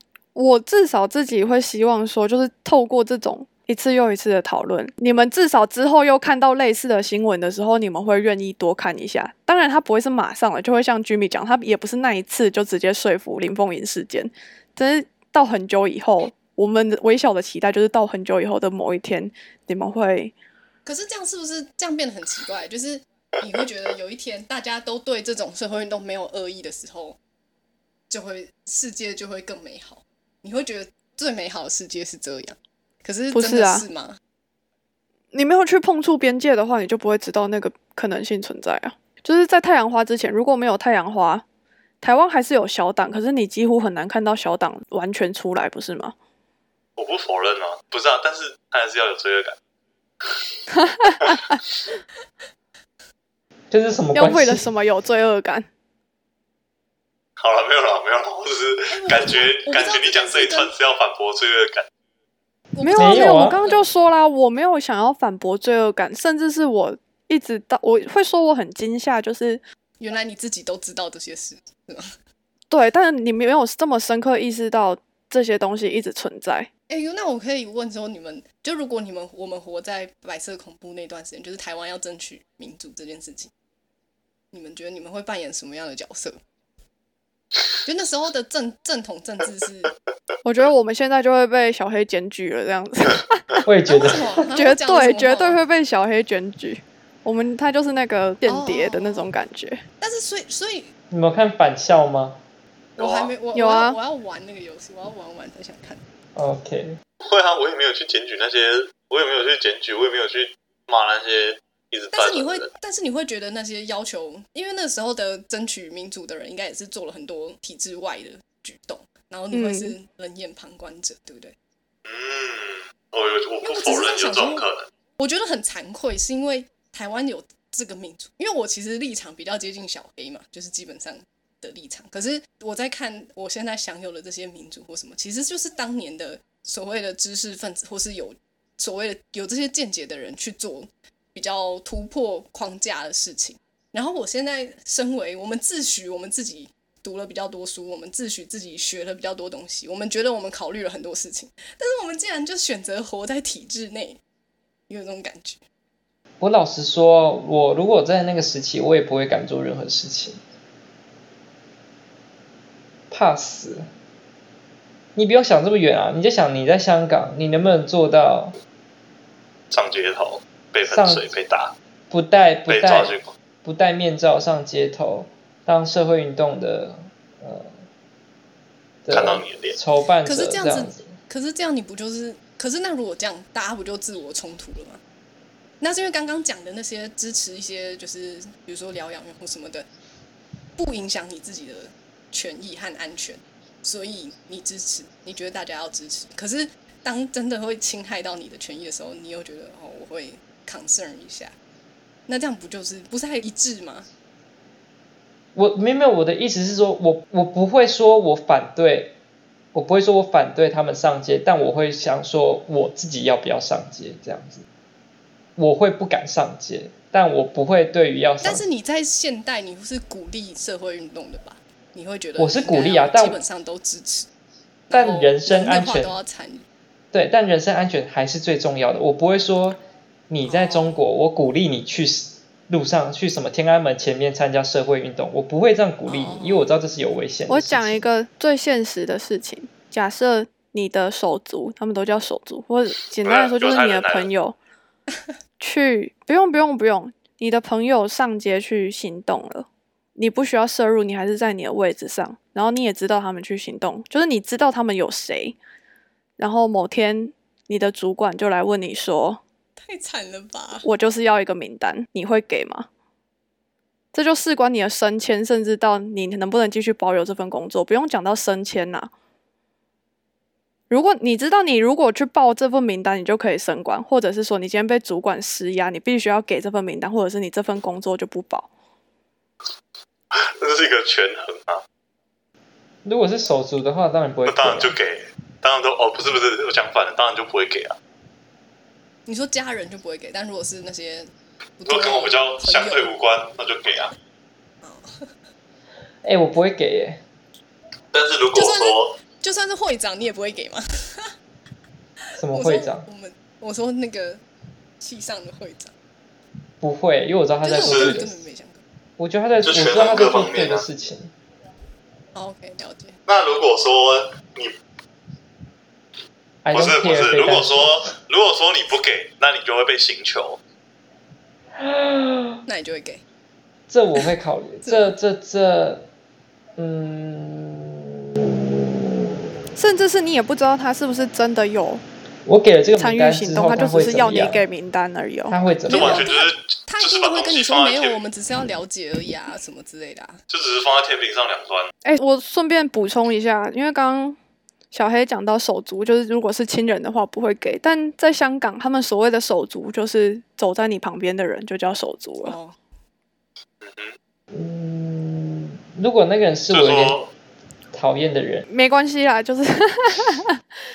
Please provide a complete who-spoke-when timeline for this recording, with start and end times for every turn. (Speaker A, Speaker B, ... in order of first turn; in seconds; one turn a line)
Speaker A: 0.3-20.3
Speaker B: 20.9-27.2
Speaker B: 28.1-34.2
Speaker A: 33.3-33.9
Speaker A: 35.3-41.4
Speaker A: 42.0-46.1
Speaker C: 47.0-49.6
Speaker A: 50.9-51.6
Speaker D: 53.7-54.7
Speaker A: 54.1-55.7
Speaker C: 57.4-61.9
Speaker B: 58.9-60.7
Speaker B: 62.7-63.9
Speaker A: 62.8-69.6
Speaker D: 63.0-63.6
Speaker B: 70.0-72.2
Speaker A: 72.7-76.7
Speaker B: 76.9-83.5
Speaker B: 84.5-86.4
Speaker B: 87.8-89.9
Speaker A: 90.4-93.6
Speaker D: 93.7-94.5
Speaker B: 93.9-95.6
Speaker A: 94.5-99.8
Speaker B: 98.5-99.3
Speaker B: 100.0-100.9
Speaker D: 101.1-102.4
Speaker B: 103.0-106.0
Speaker C: 103.0-103.3
Speaker A: 103.5-104.0
Speaker D: 106.3-107.0
Speaker C: 107.2-112.7
Speaker B: 112.1-121.5
Speaker A: 119.5-120.0
Speaker C: 122.0-124.9
Speaker B: 123.6-124.7
Speaker B: 125.2-154.2
Speaker B: 154.9-155.6
Speaker D: 156.4-160.4
Speaker D: 163.1-163.9
Speaker D: 165.2-168.6
Speaker C: 169.7-171.7
Speaker D: 170.9-171.2
Speaker D: 172.1-177.8
Speaker C: 172.7-173.3
Speaker D: 179.1-181.1
Speaker C: 179.1-179.8
Speaker B: 180.2-185.0
Speaker B: 185.8-189.9
Speaker B: 190.8-201.6
Speaker B: 202.3-204.1
Speaker D: 205.6-209.2
Speaker D: 209.7-214.7
Speaker D: 215.6-218.6
Speaker B: 218.4-224.3
Speaker D: 222.4-223.4
Speaker B: 224.9-226.7
Speaker D: 224.9-226.2
Speaker D: 227.1-238.0
Speaker B: 230.4-231.0
Speaker B: 236.1-236.7
Speaker A: 237.5-244.6
Speaker C: 243.2-244.3
Speaker A: 245.6-255.6
Speaker A: 256.4-259.4
Speaker B: 259.8-260.9
Speaker A: 260.8-262.9
Speaker A: 264.1-269.1
Speaker A: 270.9-278.7
Speaker C: 280.3-281.8
Speaker D: 283.1-284.9
Speaker C: 284.5-288.0
Speaker B: 289.3-293.1
Speaker C: 291.9-294.1
Speaker B: 294.8-295.3
Speaker D: 296.2-297.2
Speaker C: 298.1-299.2
Speaker B: 298.5-301.4
Speaker D: 302.4-303.1
Speaker B: 302.5-304.4
Speaker B: 305.0-305.9
Speaker D: 306.8-308.4
Speaker B: 307.6-308.8
Speaker C: 307.8-308.2
Speaker D: 309.2-311.3
Speaker C: 309.6-310.9
Speaker B: 312.4-313.2
Speaker C: 313.3-314.8
Speaker D: 316.6-318.1
Speaker C: 316.7-320.6
Speaker D: 321.8-322.6
Speaker B: 322.7-323.2
Speaker D: 323.9-326.1
Speaker B: 324.8-325.1
Speaker D: 326.8-329.5
Speaker A: 329.8-332.0
Speaker D: 332.5-334.6
Speaker A: 333.0-335.6
Speaker D: 335.5-336.3
Speaker B: 335.9-340.4
Speaker C: 335.9-338.2
Speaker C: 340.5-341.9
Speaker A: 342.1-344.4
Speaker A: 344.9-352.6
Speaker B: 352.4-352.8
Speaker C: 353.8-354.2
Speaker D: 354.5-357.2
Speaker C: 356.7-357.3
Speaker D: 357.9-358.7
Speaker A: 358.7-360.6